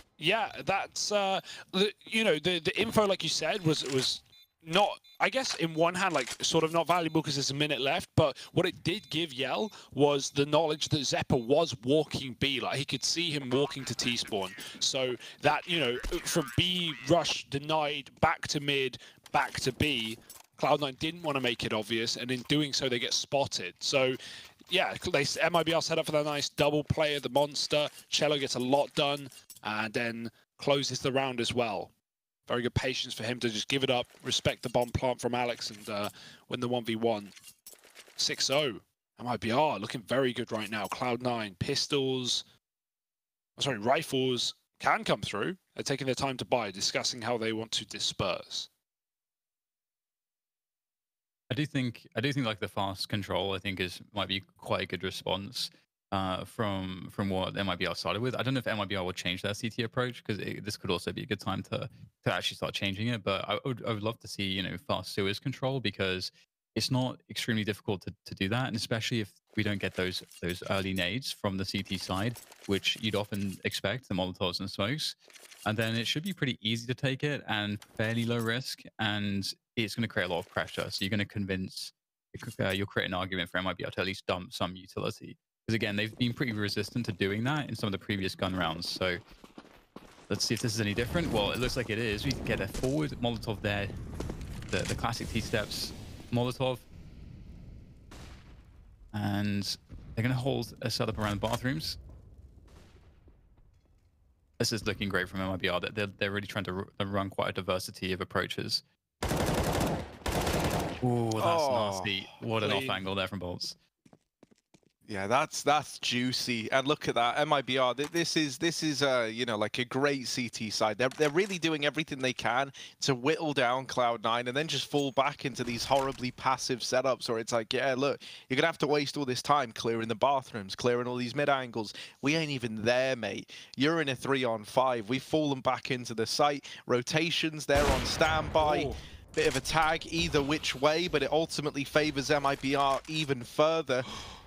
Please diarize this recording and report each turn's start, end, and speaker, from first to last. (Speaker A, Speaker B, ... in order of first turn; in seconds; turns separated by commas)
Speaker A: 0.2-24.2, Speaker A: 24.7-31.9, Speaker A: 32.5-37.4, Speaker A: 38.2-42.5, Speaker A: 43.6-48.7, Speaker B: 51.5-89.2, Speaker B: 90.3-93.9, Speaker B: 94.7-96.9, Speaker B: 99.1-102.0, Speaker B: 104.6-108.8, Speaker B: 111.0-113.8, Speaker C: 111.4-112.2, Speaker A: 112.6-113.0, Speaker C: 115.1-144.1, Speaker A: 138.6-139.0